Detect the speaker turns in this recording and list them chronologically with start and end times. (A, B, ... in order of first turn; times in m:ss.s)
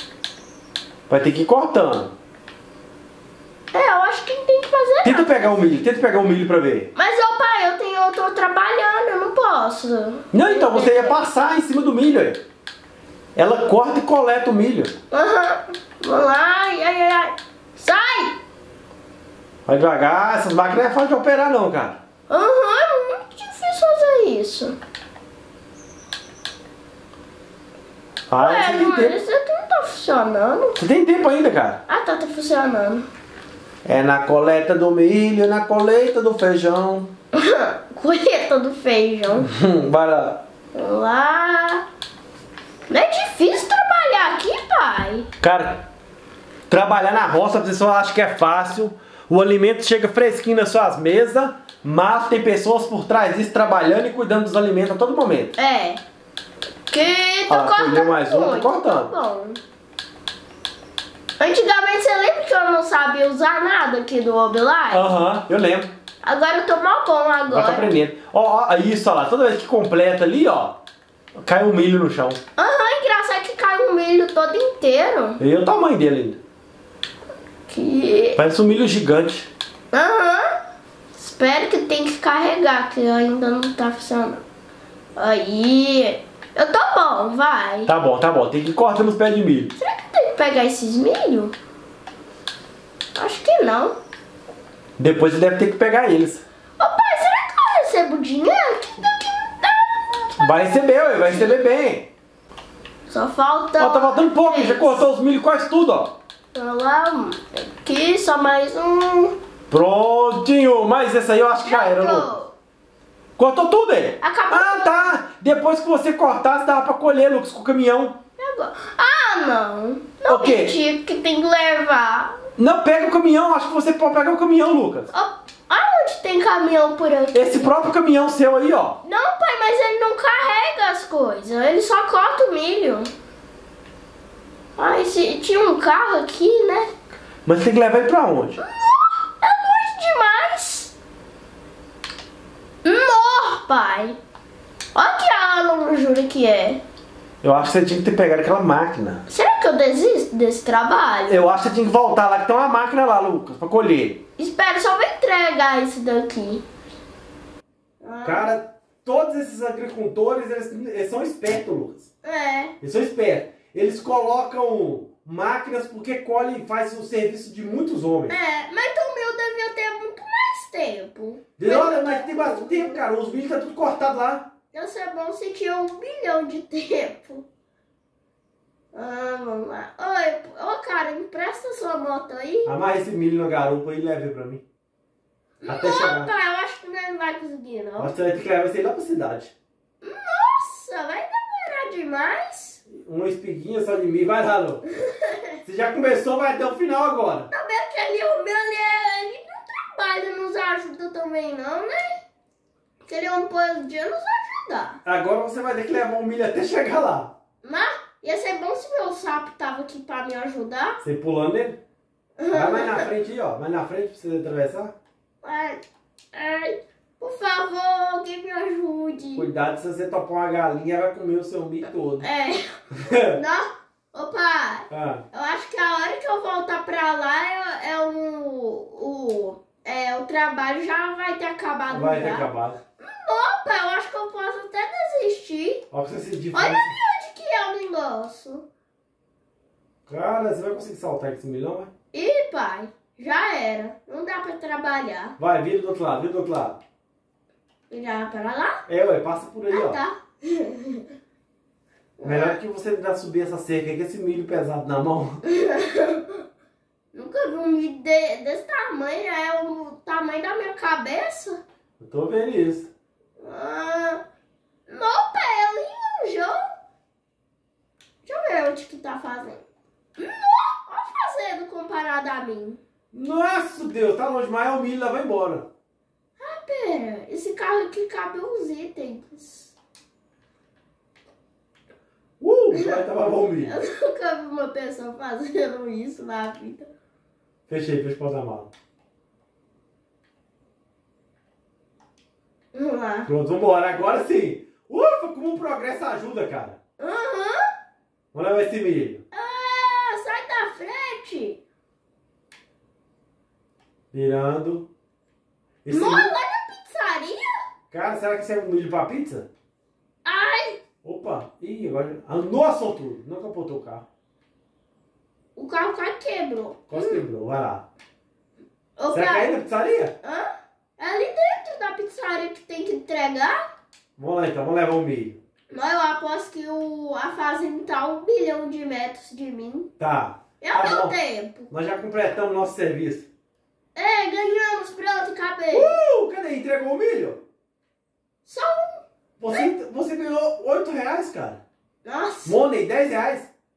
0:01.1-0:02.1 A
0:03.7-0:05.6 B
0:05.0-0:06.9 A
0:06.9-0:11.2 B
0:10.3-0:12.4 A
0:13.4-0:14.9 A
0:15.1-0:18.4 B
0:19.6-0:22.0 A
0:22.3-0:24.7 B
0:28.3-0:29.2 A
0:28.4-0:30.8 B
0:30.8-0:31.8 A
0:31.9-0:33.0 B
0:33.8-0:37.1 A
0:37.3-0:39.5 B
0:39.4-0:40.4 A
0:40.7-0:41.8 B
0:42.9-0:45.2 B
0:45.4-0:45.8 A
0:46.7-0:55.6 A
0:55.6-0:56.0 B
0:56.9-0:59.6 B
0:57.5-0:59.1 A
1:01.4-1:05.1 B
1:04.9-1:05.9 A
1:06.2-1:07.9 B
1:07.5-1:10.8 A
1:11.4-1:12.4 A
1:12.6-1:15.4 B
1:15.4-1:16.4 A
1:17.7-1:18.4 B
1:18.4-1:19.5 A
1:19.9-1:20.6 B
1:21.2-1:24.4 B
1:25.2-1:27.9 B
1:27.9-1:29.7 A
1:29.8-1:31.5 B
1:33.2-1:33.9 B
1:35.0-1:36.4 A
1:36.8-1:41.6 B
1:40.4-1:42.1 A
1:43.1-1:45.0 B
1:43.8-1:46.1 A
1:46.5-1:49.3 B
1:49.7-1:52.3 A
1:51.6-1:52.5 B
1:53.4-1:58.2 A
1:54.2-1:55.2 B
1:58.4-2:02.3 B
2:00.2-2:00.8 A
2:02.6-2:05.1 A
2:05.1-2:07.9 B
2:07.3-2:09.0 A
2:09.0-2:13.1 B
2:14.8-2:16.9 B
2:17.4-2:18.6 A
2:18.6-2:20.9 B
2:22.8-2:24.2 B
2:24.9-2:26.8 B
2:27.4-2:29.2 A
2:29.3-2:31.4 B
2:31.3-2:34.2 A
2:34.4-2:36.6 B
2:38.0-2:38.5 B
2:38.2-2:42.1 A
2:42.2-2:42.7 B
2:42.8-2:48.4 A
2:48.3-2:53.0 B
2:51.6-2:54.5 A
2:54.7-2:57.4 B
2:58.9-3:02.7 B
3:02.6-3:04.6 A
3:05.6-3:08.1 B
3:05.6-3:06.3 A
3:08.0-3:09.5 A
3:10.0-3:12.8 B
3:12.9-3:14.8 A
3:15.0-3:15.5 B
3:15.6-3:17.5 A
3:17.5-3:22.2 B
3:23.0-3:25.0 B
3:25.0-3:27.3 A
3:27.6-3:31.0 B
3:31.0-3:31.8 A
3:32.4-3:33.1 B
3:32.5-3:34.9 A
3:35.4-3:35.8 B
3:36.3-3:39.5 B
3:39.3-3:42.2 A
3:42.2-3:42.7 B
3:42.9-3:43.4 A
3:43.3-3:52.5 B
3:44.9-3:45.2 A
3:51.9-3:52.8 A
3:53.0-3:55.8 B
3:55.9-3:57.0 A
3:56.5-3:58.6 B
4:00.1-4:01.9 A
4:02.1-4:05.3 B
4:05.4-4:06.8 A
4:07.9-4:08.8 B
4:08.9-4:10.0 A
4:09.7-4:11.0 B
4:12.2-4:12.6 B
4:12.2-4:15.4 A
4:15.4-4:16.4 B
4:17.1-4:21.6 B
4:22.0-4:22.9 A
4:23.4-4:24.2 B
4:24.9-4:26.6 B
4:28.2-4:29.6 B
4:30.2-4:32.8 B
4:33.1-4:35.6 A
4:36.4-4:39.8 B
4:42.4-4:43.8 A
4:42.7-4:43.0 B
4:43.6-4:46.9 B
4:47.7-4:48.7 A
4:52.7-4:53.3 B
4:53.3-4:56.8 A
4:57.0-4:57.7 B
4:58.3-4:59.2 A
4:59.3-5:01.6 B
5:04.1-5:04.9 A
5:05.8-5:06.3 A
5:05.9-5:07.6 B
5:07.9-5:09.5 A
5:10.2-5:10.8 B
5:11.0-5:14.0 A
5:15.6-5:17.2 B
5:16.9-5:17.8 A
5:19.0-5:19.5 B
5:19.1-5:20.1 A
5:20.2-5:23.6 B
5:24.2-5:25.4 A
5:25.7-5:29.9 B
5:30.0-5:31.2 A
5:30.6-5:31.7 B
5:31.7-5:33.3 A
5:33.9-5:36.0 B
5:35.7-5:37.4 A
5:38.4-5:39.7 B
5:39.4-5:41.6 A
5:42.0-5:42.6 B
5:42.4-5:43.5 A